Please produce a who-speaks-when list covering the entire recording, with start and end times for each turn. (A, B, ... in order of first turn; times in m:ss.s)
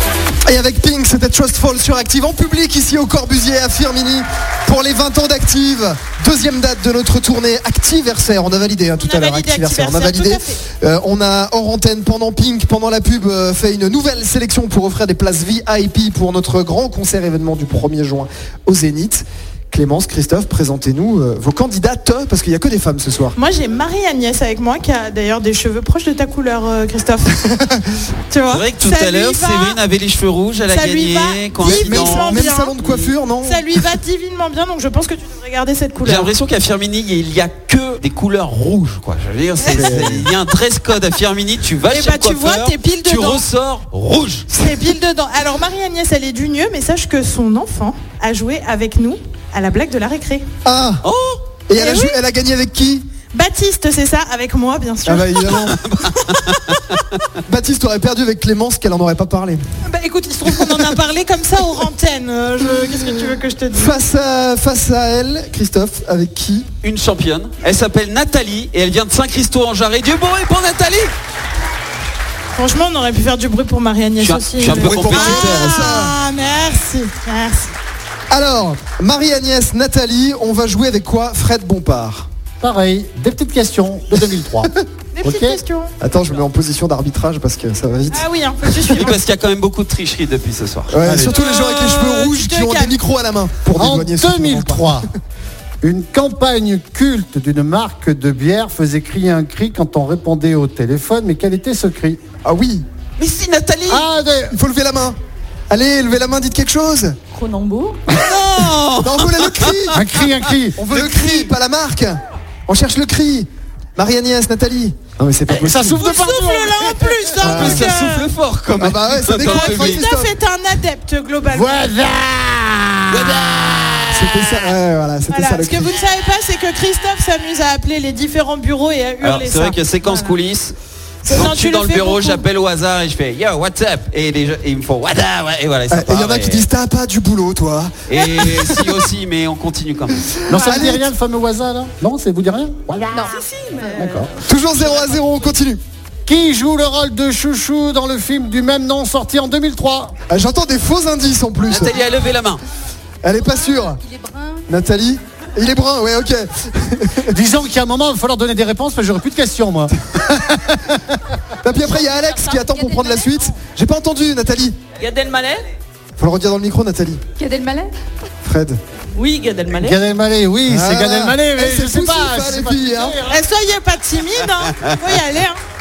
0:00.4-0:23.3 A
0:09.0-0:10.6 B
0:23.3-0:27.5 B
0:28.3-0:29.8 B
0:28.5-0:33.1 C
0:30.6-0:32.8 B
0:31.6-0:33.9 A
0:33.4-0:36.3 B
0:36.0-0:44.5 C
0:39.6-0:40.4 B
0:39.7-0:40.3 A
0:41.8-0:43.4 B
0:44.5-0:50.4 B
0:50.6-0:51.0 A
0:51.0-0:51.4 C
0:51.7-0:53.0 A
0:51.7-0:52.2 B
0:53.3-0:57.0 B
0:55.0-0:56.0 A
0:55.6-0:56.8 C
0:57.4-0:59.6 A
0:59.8-1:04.0 B
1:00.5-1:00.9 A
1:02.8-1:03.1 A
1:03.7-1:06.7 A
1:06.8-1:11.1 C
1:12.5-1:17.7 B
1:14.2-1:16.1 C
1:14.7-1:16.1 A
1:18.3-1:22.3 A
1:22.6-1:25.6 D
1:25.1-1:25.9 B
1:26.0-1:29.1 A
1:28.1-1:29.2 B
1:28.9-1:31.1 C
1:30.9-1:35.1 A
1:31.0-1:31.3 D
1:31.3-1:33.0 B
1:33.7-1:35.1 D
1:35.8-1:42.2 D
1:42.4-1:42.8 A
1:43.2-1:44.1 C
1:43.9-1:44.5 D
1:44.5-1:45.2 A
1:45.7-1:47.2 A
1:47.3-1:48.0 E
1:48.1-1:50.3 C
1:48.1-1:50.0 A
1:49.9-1:50.8 D
1:50.8-1:56.0 A
1:50.9-1:51.5 C
1:55.5-1:57.4 D
1:56.0-1:58.3 B
1:57.4-1:57.8 A
1:57.4-2:00.0 C
1:58.8-2:00.3 A
1:59.4-2:02.0 B
2:01.5-2:03.8 D
2:03.1-2:04.4 C
2:04.1-2:06.0 A
2:05.3-2:10.4 B
2:09.2-2:10.7 C
2:11.3-2:12.4 B
2:11.3-2:16.7 C
2:15.9-2:19.0 A
2:18.1-2:20.3 C
2:20.2-2:21.1 A
2:20.5-2:23.4 D
2:23.3-2:25.2 F
2:23.9-2:24.3 D
2:24.4-2:25.8 A
2:26.2-2:30.2 D
2:30.3-2:32.0 A
2:31.6-2:32.6 C
2:33.2-2:34.0 A
2:33.5-2:34.7 E
2:34.7-2:37.4 A
2:37.3-2:41.2 D
2:41.6-2:44.8 A
2:42.0-2:43.5 E
2:44.9-2:45.7 F
2:46.2-2:47.2 A
2:47.4-2:47.9 E
2:48.4-2:48.8 A
2:49.1-2:50.0 F
2:49.7-2:53.4 D
2:50.7-2:53.2 A
2:53.2-2:55.6 B